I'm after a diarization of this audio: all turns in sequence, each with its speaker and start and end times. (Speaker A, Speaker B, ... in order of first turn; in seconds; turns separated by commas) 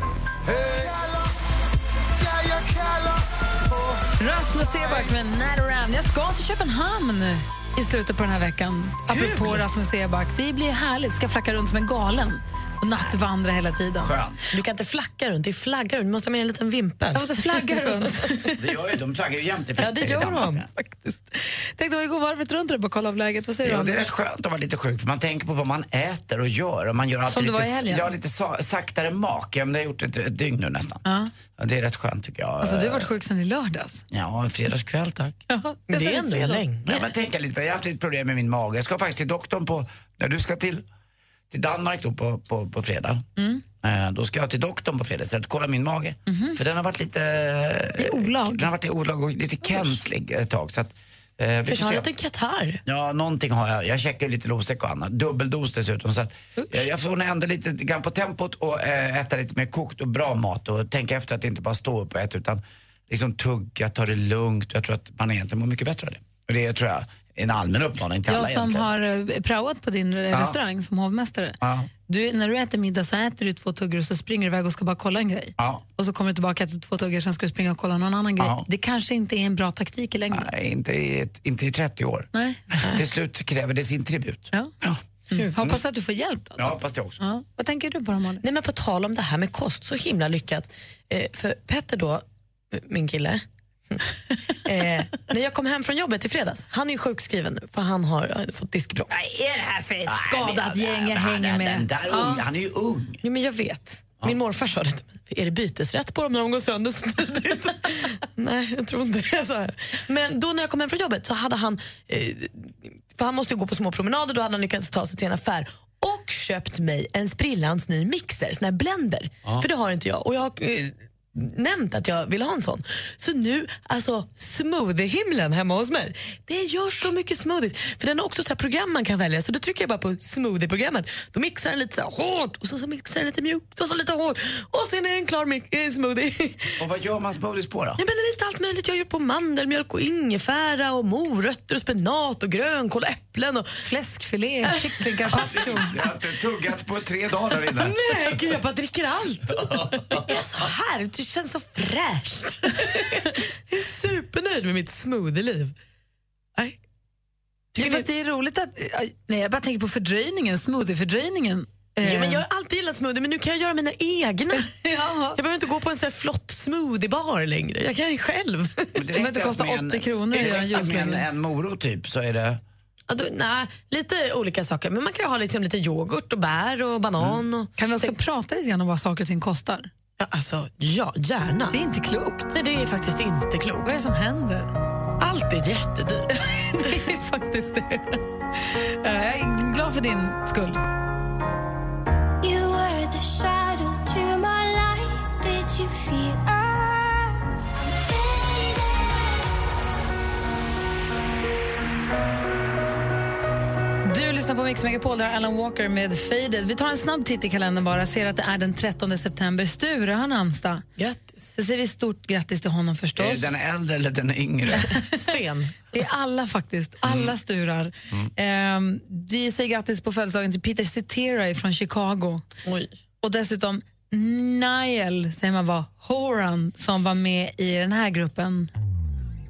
Speaker A: 0.5-1.2, Speaker A: 2.2-4.0, Speaker B: 4.2-14.2, Speaker C: 9.1-9.6, Speaker D: 14.0-14.4, Speaker C: 14.5-18.5, Speaker B: 17.1-18.4, Speaker D: 18.6-20.7, Speaker C: 19.8-20.6, Speaker B: 20.7-24.0, Speaker D: 23.6-31.0, Speaker B: 27.3-28.1, Speaker B: 31.1-31.3, Speaker D: 31.6-33.1, Speaker B: 32.6-34.0, Speaker D: 34.1-35.4, Speaker B: 35.5-36.7, Speaker C: 35.9-37.1, Speaker D: 36.9-40.9, Speaker D: 41.5-43.3, Speaker B: 43.4-43.6, Speaker D: 43.8-52.1, Speaker B: 46.3-46.6, Speaker B: 48.0-48.7, Speaker B: 49.6-50.0, Speaker C: 51.7-52.8, Speaker D: 52.9-68.9, Speaker B: 56.6-56.8, Speaker B: 68.3-80.5, Speaker D: 70.3-70.6, Speaker D: 71.6-71.9, Speaker D: 78.4-78.7, Speaker D: 80.3-85.0, Speaker B: 82.3-82.6, Speaker B: 85.3-88.4, Speaker D: 86.6-87.2, Speaker C: 88.4-94.0, Speaker C: 94.7-99.1, Speaker B: 99.4-102.4, Speaker D: 100.1-103.2, Speaker C: 103.2-137.0, Speaker D: 136.8-138.0, Speaker C: 138.0-143.7, Speaker B: 143.8-145.9, Speaker C: 144.7-145.9, Speaker D: 145.3-148.0, Speaker C: 147.7-155.8, Speaker C: 157.8-158.1, Speaker B: 157.8-162.4, Speaker C: 162.0-164.7, Speaker B: 164.6-165.4, Speaker C: 165.3-169.1, Speaker D: 169.0-172.6, Speaker B: 169.2-171.2, Speaker C: 170.4-171.0, Speaker C: 173.1-178.2, Speaker B: 177.8-179.9, Speaker C: 180.2-181.8, Speaker B: 181.7-182.5, Speaker C: 182.5-183.9, Speaker B: 183.8-184.7, Speaker C: 185.2-186.9, Speaker B: 186.6-188.2, Speaker B: 189.0-190.8, Speaker E: 192.4-197.5, Speaker E: 198.3-198.7, Speaker B: 204.1-210.8, Speaker C: 211.0-211.4, Speaker B: 211.6-213.5, Speaker D: 213.2-214.9, Speaker C: 215.1-215.8, Speaker B: 215.9-222.4, Speaker C: 222.7-222.9, Speaker B: 223.2-228.7